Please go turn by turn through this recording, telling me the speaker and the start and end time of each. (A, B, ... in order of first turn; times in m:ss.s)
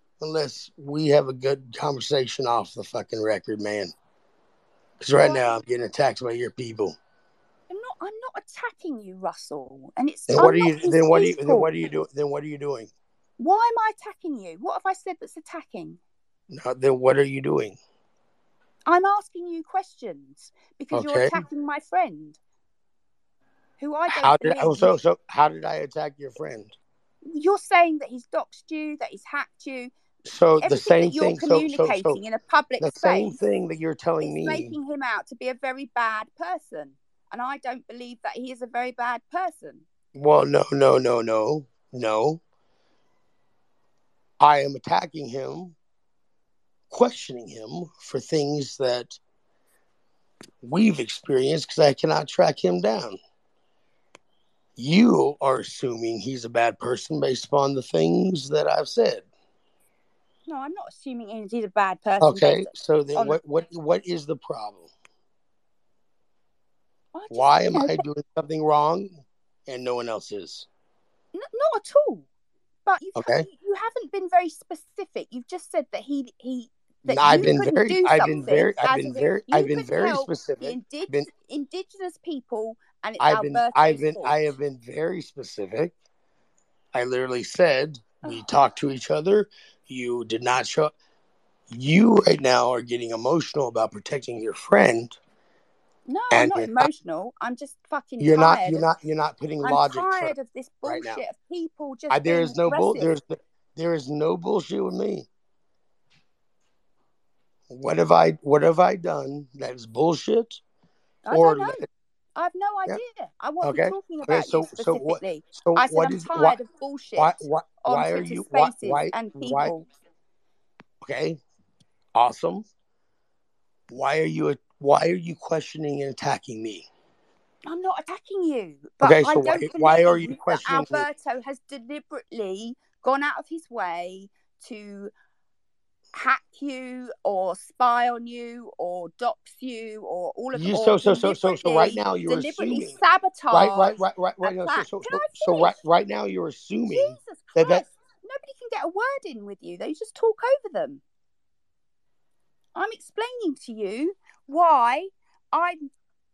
0:00.2-0:03.9 A
0:05.0-0:07.0 A
0:05.2-0:05.5 B
0:07.7-0:11.8 B
0:10.3-0:12.9 A
0:13.4-0:16.0 B
0:16.5-0:17.8 A
0:18.9-0:22.4 B
0:20.9-0:21.4 A
0:23.8-0:24.9 B
0:24.1-0:26.8 A
0:27.3-0:29.9 B
0:30.2-0:32.2 A
0:30.6-0:33.4 B
0:32.8-0:34.8 A
0:34.2-0:39.8 B
0:40.2-0:42.4 A
0:44.4-0:45.8 A
0:46.9-0:49.2 A
0:50.6-0:53.2 A
0:54.8-0:59.3 A
1:00.5-1:03.4 B
1:02.2-1:04.9 A
1:07.1-1:08.0 B
1:07.3-1:10.7 A
1:11.3-1:12.3 B
1:12.9-1:24.4 B
1:13.2-1:13.5 A
1:17.1-1:21.3 A
1:23.2-1:25.9 A
1:26.9-1:30.9 A
1:31.7-1:35.2 A
1:36.1-1:38.9 B
1:36.3-1:36.9 A
1:38.2-1:40.3 A
1:39.6-1:43.1 B
1:40.8-1:41.2 A
1:42.1-1:45.3 A
1:47.7-1:50.6 A
1:51.3-1:59.9 B
1:51.3-1:51.9 A
1:53.6-1:56.6 A
1:57.2-1:59.7 A
2:01.0-2:01.4 A
2:02.2-2:02.6 A
2:03.9-2:06.9 A
2:07.7-2:15.1 B
2:09.0-2:11.1 A
2:16.1-2:25.8 B
2:20.5-2:23.0 A
2:23.5-2:27.8 A
2:26.9-2:31.0 B
2:32.8-2:35.9 B